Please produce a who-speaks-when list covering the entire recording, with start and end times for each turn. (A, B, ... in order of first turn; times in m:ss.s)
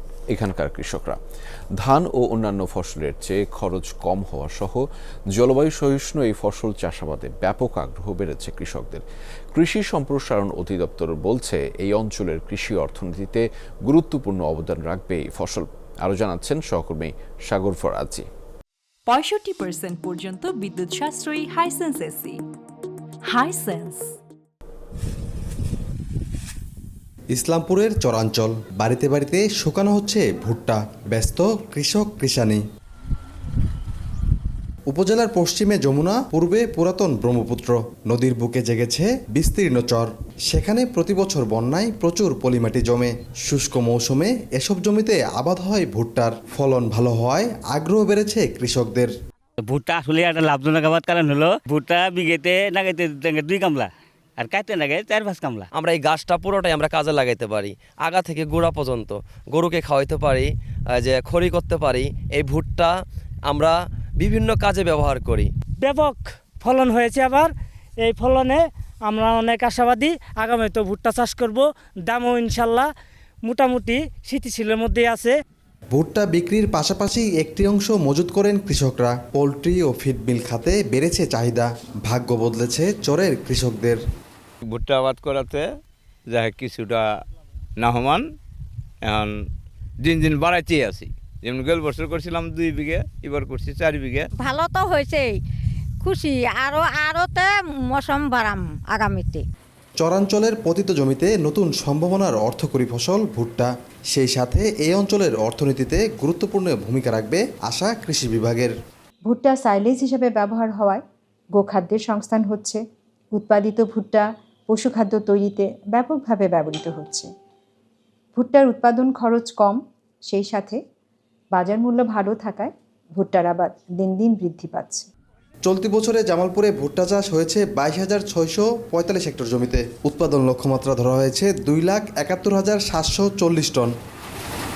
0:00.3-0:01.2 A
0:01.8-0:09.0 A
0:09.5-0:18.3 A
0:19.1-0:22.4 B
0:23.2-0:24.2 B
0:27.3-0:32.6 C
0:34.9-0:49.1 C
0:49.6-0:55.7 D
0:55.8-1:05.5 E
1:05.8-1:07.5 F
1:08.0-1:12.9 F
1:13.5-1:15.3 F
1:15.9-1:24.0 C
1:24.7-1:25.7 G
1:26.3-1:27.1 G
1:27.8-1:28.2 G
1:29.1-1:29.4 G
1:30.0-1:34.3 G
1:34.4-1:35.4 H
1:36.0-1:39.4 H
1:40.0-1:48.7 C
1:49.2-1:51.0 I
1:51.5-1:52.8 I
1:53.3-1:57.3 I
1:58.4-2:00.8 I
2:01.5-2:05.1 I
2:05.6-2:13.9 C